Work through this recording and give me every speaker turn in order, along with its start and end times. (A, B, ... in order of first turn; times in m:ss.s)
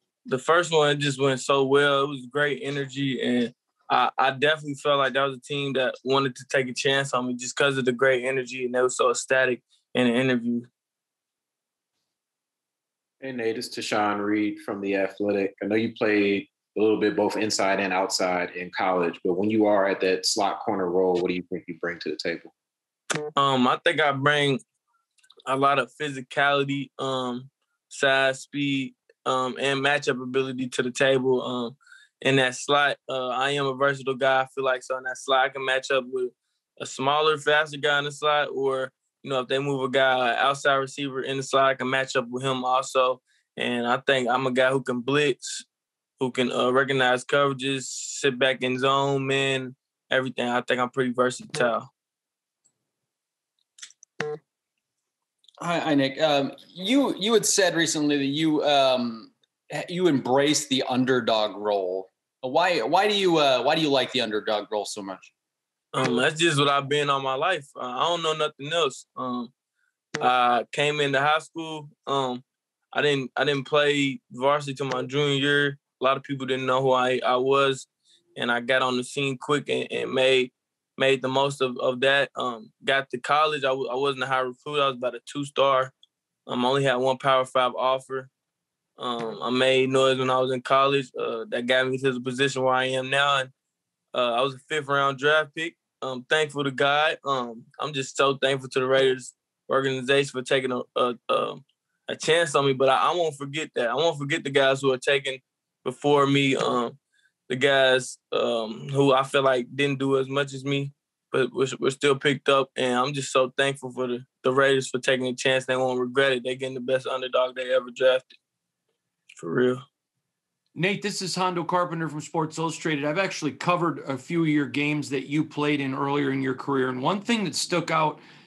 0:00.3-0:10.7 A
0:13.2-0:22.5 B
0:23.4-0:24.6 A
0:25.5-0:45.6 A
0:46.2-0:51.9 A
0:55.6-1:05.3 C
1:05.9-1:09.5 A
1:10.2-1:25.9 A
1:26.5-1:28.3 A
1:29.0-1:33.5 A
1:34.1-1:47.0 A
1:47.5-1:58.3 A
1:59.4-1:59.8 A
2:00.7-2:08.2 D